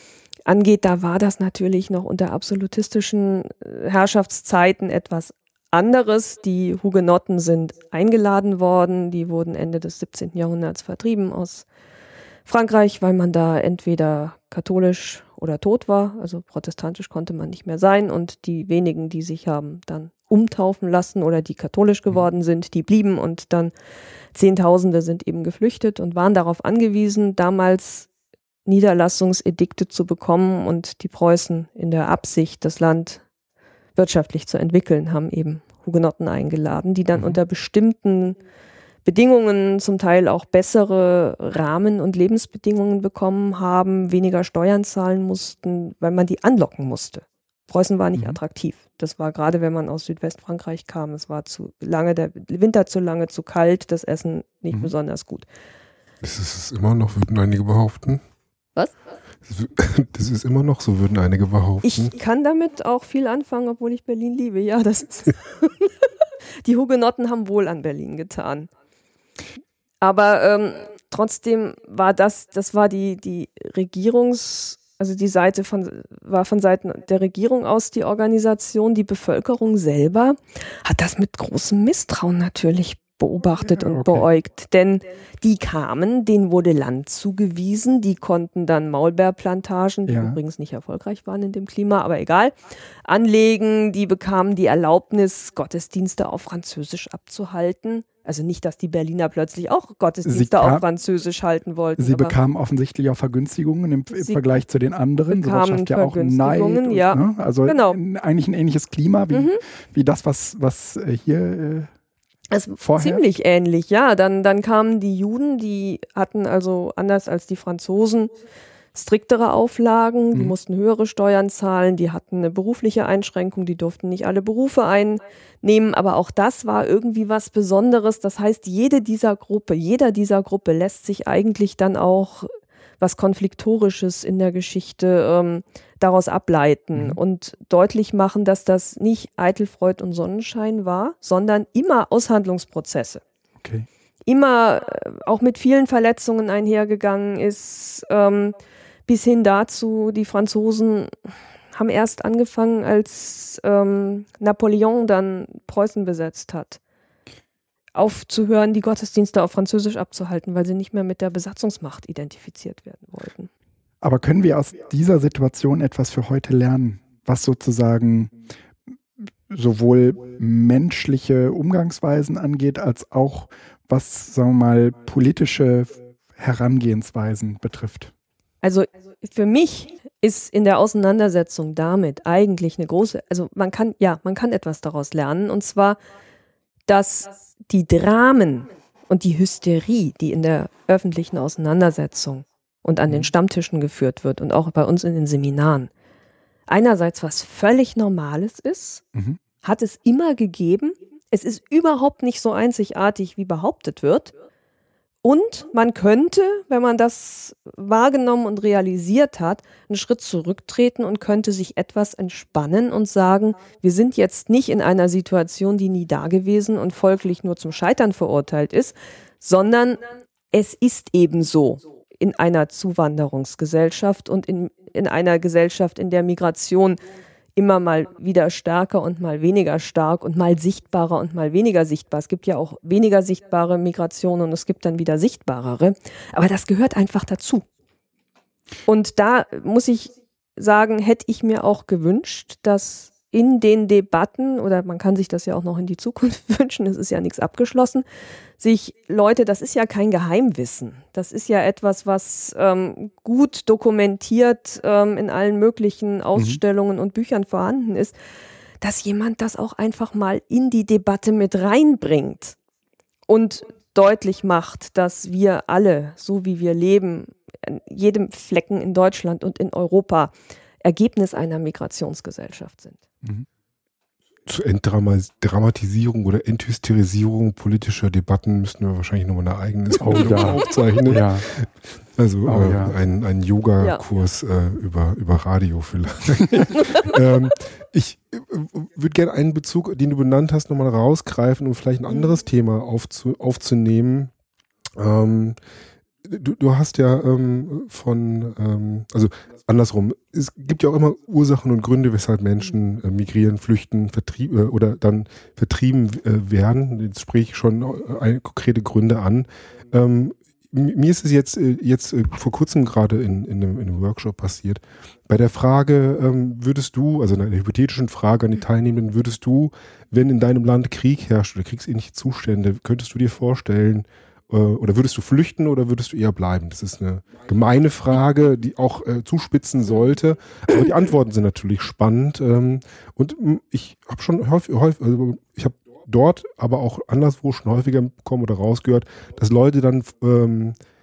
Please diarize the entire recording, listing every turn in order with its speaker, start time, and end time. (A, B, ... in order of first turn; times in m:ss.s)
0:00.4-0:11.6 A
0:12.4-0:23.7 A
0:24.3-0:28.1 A
0:28.6-0:33.2 A
0:34.0-0:38.4 A
0:39.0-0:55.4 A
0:56.2-0:58.2 B
0:59.4-1:02.1 B
1:01.8-1:05.9 A
1:06.6-1:08.7 A
1:10.0-1:32.5 A
1:23.6-1:24.2 C
1:30.1-1:30.4 C
1:33.0-1:42.3 A
1:40.2-1:40.8 C
1:42.0-1:51.9 C
1:45.3-1:48.0 A
1:49.3-1:49.6 A
1:52.5-1:58.3 A
1:52.8-1:53.2 C
1:58.9-2:23.2 A
2:23.6-2:23.8 C
2:24.3-2:28.6 A
2:29.1-2:31.1 A
2:31.7-2:36.8 A
2:37.9-2:43.5 A
2:44.0-2:48.3 C
2:49.5-2:58.1 C
2:58.6-3:06.0 A
3:06.9-3:15.9 A
3:16.7-3:19.0 A
3:19.6-3:24.3 A
3:25.2-3:47.0 A
3:47.6-3:57.6 A
3:58.8-4:08.0 A
4:08.6-4:18.2 A
4:18.8-4:22.6 A
4:23.3-4:33.0 A
4:34.5-4:54.3 B
4:40.0-4:41.5 C
4:42.4-4:43.0 C
4:55.0-4:55.6 B
4:56.2-5:40.8 B